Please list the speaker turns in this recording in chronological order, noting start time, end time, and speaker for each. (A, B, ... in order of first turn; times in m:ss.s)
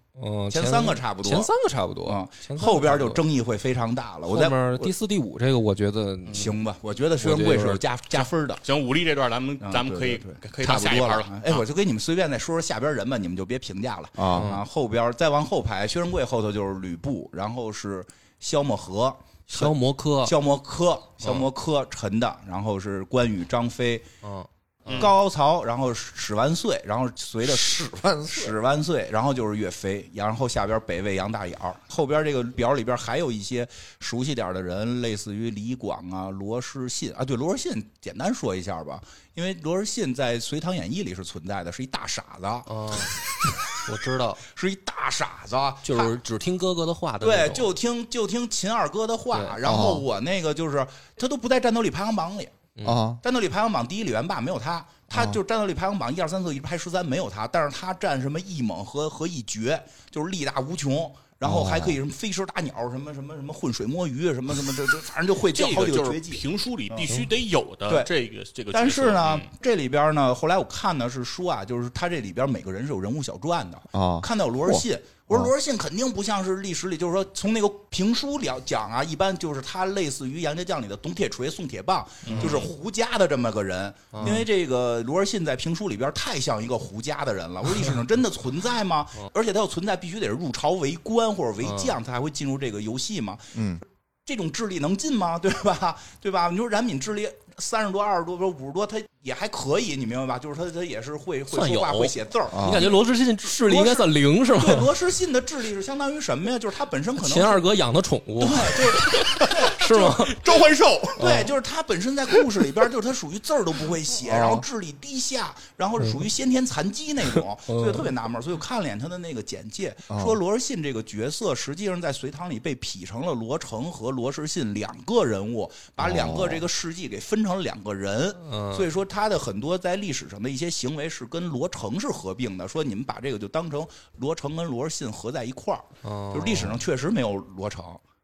0:00.2-0:03.2 A
0:00.5-0:01.5 B
0:02.1-0:04.9 B
0:04.3-0:06.4 A
0:06.3-0:06.6 C
0:06.3-0:08.6 B
0:07.2-0:07.8 A
0:08.1-0:11.6 C
0:09.6-0:24.1 B
0:14.2-0:14.5 D
0:14.3-0:14.6 A
0:19.5-0:20.4 A
0:21.2-0:21.5 A
0:24.2-0:25.1 A
0:24.9-0:25.1 C
0:24.9-0:43.2 B
0:27.4-0:28.6 D
0:42.7-0:43.2 A
0:43.8-0:44.4 A
0:44.5-0:46.2 B
0:45.8-0:47.7 A
0:47.2-0:52.6 B
0:49.3-0:49.6 A
0:49.6-0:50.0 D
0:52.8-0:53.0 A
0:52.8-0:53.2 D
0:53.2-1:07.1 B
0:55.1-0:55.4 D
1:01.4-1:02.0 D
1:05.5-1:09.5 C
1:08.7-1:33.6 B
1:13.9-1:15.5 D
1:22.3-1:22.7 C
1:22.3-1:22.6 A
1:24.1-1:24.4 A
1:31.6-1:32.0 A
1:33.6-1:33.8 D
1:34.3-1:47.6 B
1:41.5-1:44.9 A
1:42.5-1:42.9 D
1:47.2-1:50.4 A
1:48.4-1:49.9 B
1:49.4-1:51.2 C
1:51.2-2:18.0 B
1:51.2-1:51.5 A
1:54.3-1:54.6 D
1:54.3-1:54.6 A
1:57.2-1:58.1 A
2:00.1-2:00.4 D
2:06.0-2:06.7 D
2:08.4-2:08.9 A
2:16.0-2:16.8 A